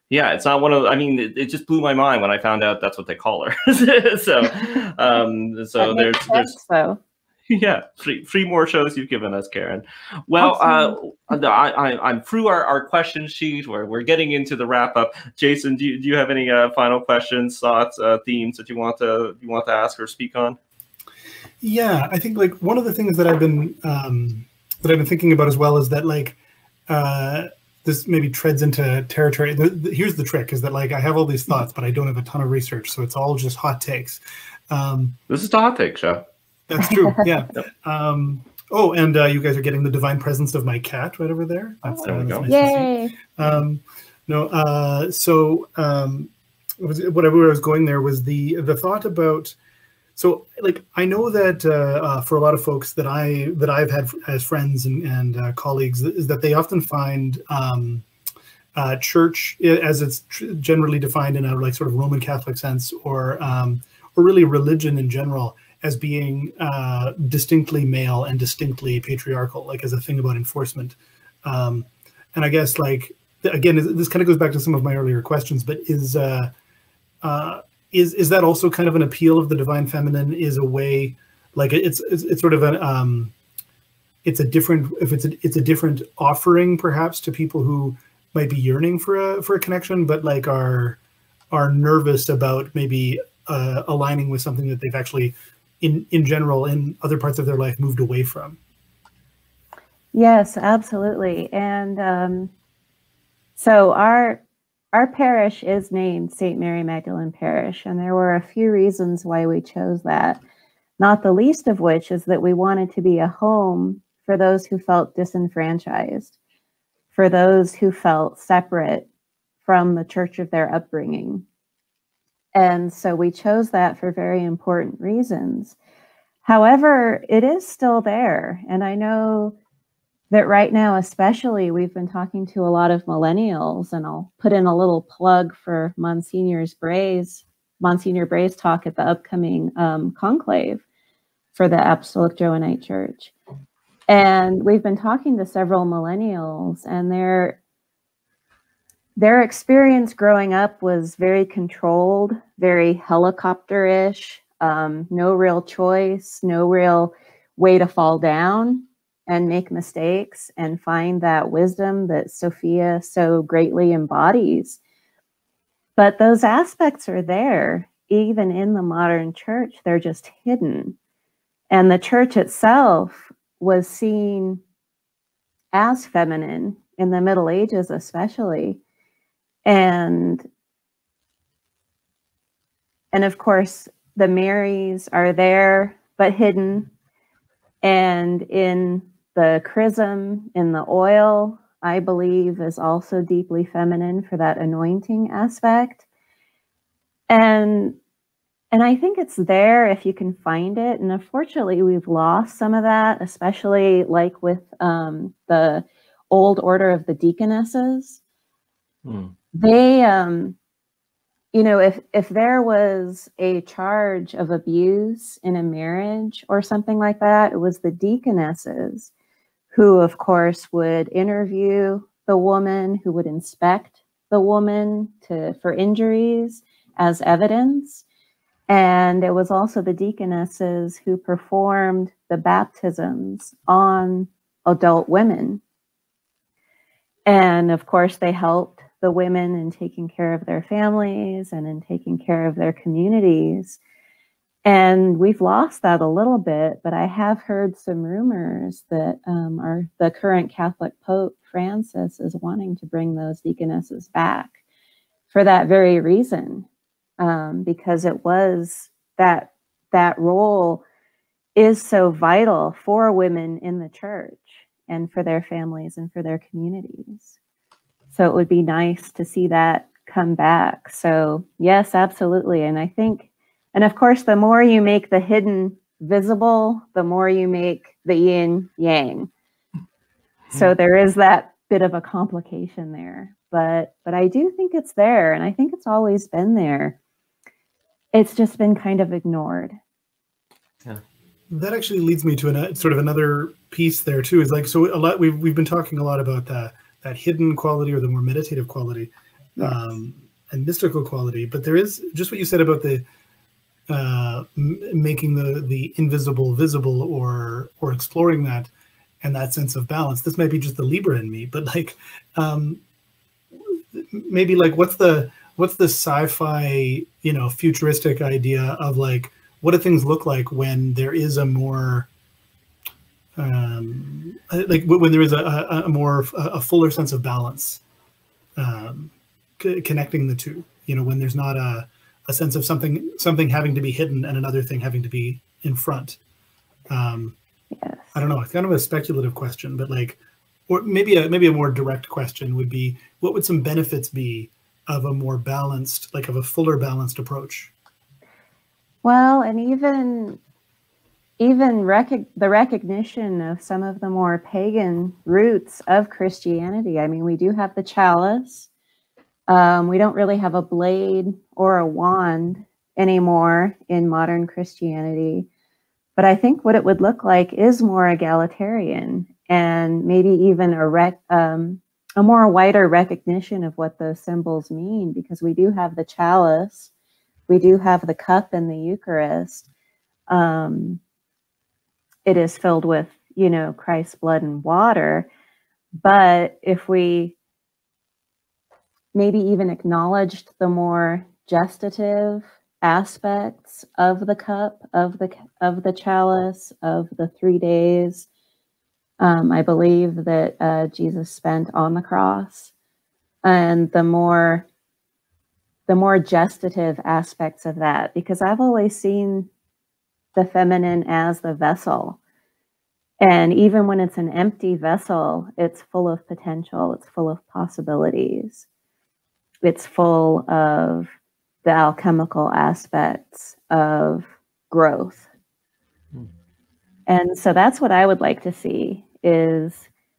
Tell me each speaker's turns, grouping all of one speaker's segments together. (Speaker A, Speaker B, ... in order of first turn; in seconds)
Speaker A: 0.1-6.5, 7.5-20.6, 35.3-36.2, 41.9-42.5, 209.0-209.3
Speaker B: 5.8-7.0, 10.4-11.0, 42.5-43.1, 100.1-102.5, 103.6-104.4, 104.9-110.4, 111.0-116.3, 117.1-119.1, 119.6-121.4, 122.5-125.8, 126.4-129.5, 130.3-140.8, 141.5-143.3, 144.1-147.6, 149.2-164.8, 166.0-170.9, 171.7-174.6, 175.7-178.8, 179.6-180.5, 183.1-186.9, 187.8-196.0, 197.3-197.9, 198.7-208.2, 209.5-210.6, 211.5-219.1, 219.7-228.0, 228.7-235.6, 237.2-243.8, 244.6-254.5, 255.3-256.6, 257.2-260.8, 261.6-267.3, 268.1-279.3, 280.5-286.9, 288.1-289.8, 337.7-338.1, 349.0-350.4, 351.4-358.7, 359.5-365.5, 366.2-376.9, 377.5-379.7, 380.3-381.0, 382.2-385.3, 386.0-387.3, 389.1-398.3, 399.2-402.7, 403.4-404.6, 405.9-409.5, 410.3-412.2, 413.2-418.6, 419.6-421.1, 421.6-425.2, 427.1-429.9
Speaker C: 21.6-35.2, 36.7-49.5, 50.1-58.0, 58.7-76.5, 77.2-83.3, 84.2-91.0, 91.5-98.6, 291.5-303.0, 303.9-308.7, 309.2-312.8, 313.6-322.1, 323.4-327.8, 328.6-336.2, 336.9-337.4, 338.1-347.7